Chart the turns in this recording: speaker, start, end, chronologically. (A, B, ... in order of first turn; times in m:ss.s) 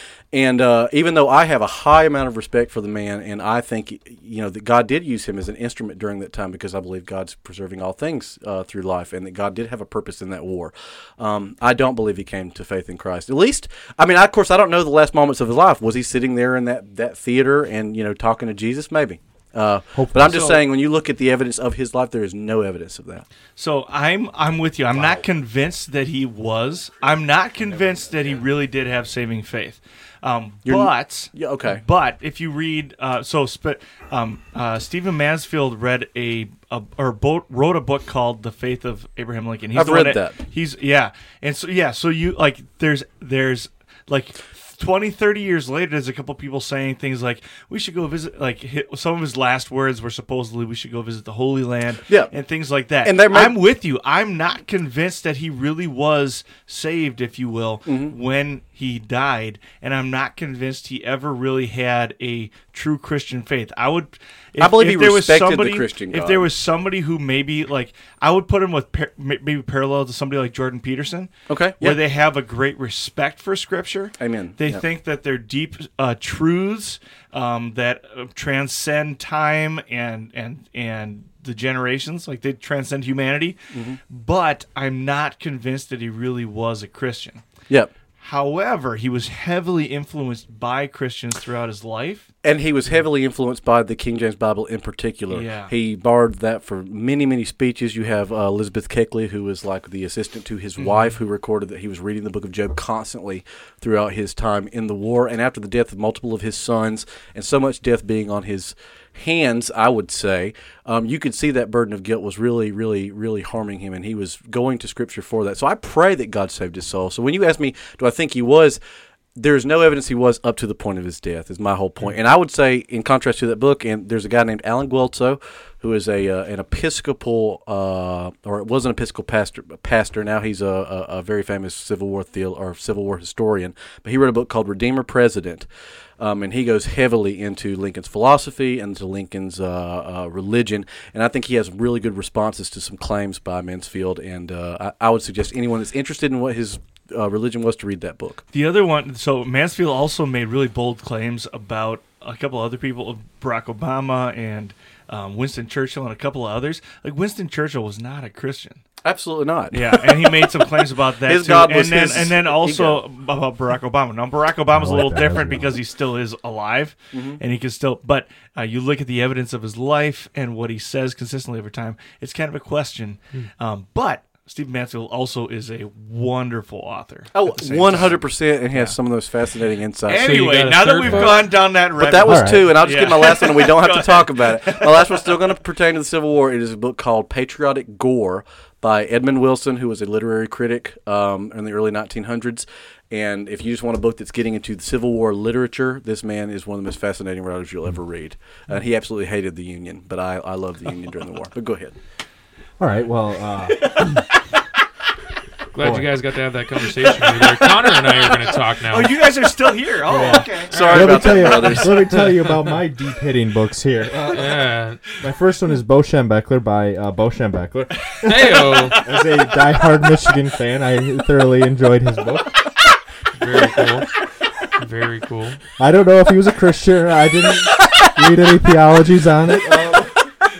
0:00.3-0:23.3 A
0:19.9-0:20.6 B
0:23.6-1:27.4 C
0:30.6-0:31.8 A
0:39.7-0:40.4 A
0:52.1-0:52.3 A
0:53.0-0:53.6 A
0:57.8-0:58.1 A
1:04.6-1:06.5 A
1:11.5-1:12.0 A
1:14.2-1:14.8 A
1:23.7-1:24.0 A
1:28.2-1:32.3 C
1:32.4-1:58.8 A
1:35.3-1:35.7 C
1:59.3-2:28.4 A
2:28.5-2:38.8 C
2:39.0-2:40.3 A
2:39.7-2:59.0 C
2:41.2-2:43.0 A
2:44.7-2:45.8 B
2:47.1-2:47.4 A
2:57.3-3:00.3 A
3:00.0-3:05.3 C
3:00.1-3:01.5 D
3:01.3-3:22.0 A
3:02.2-3:02.7 B
3:22.8-3:24.3 B
3:23.9-3:24.1 C
3:25.7-3:29.3 D
3:25.8-3:26.2 B
3:27.0-3:31.7 C
3:30.1-3:32.2 A
3:30.1-3:32.6 D
3:30.9-3:42.6 B
3:34.3-3:35.1 D
3:38.2-3:39.1 D
3:43.4-3:44.2 D
3:44.8-3:45.6 D
3:45.8-3:50.2 B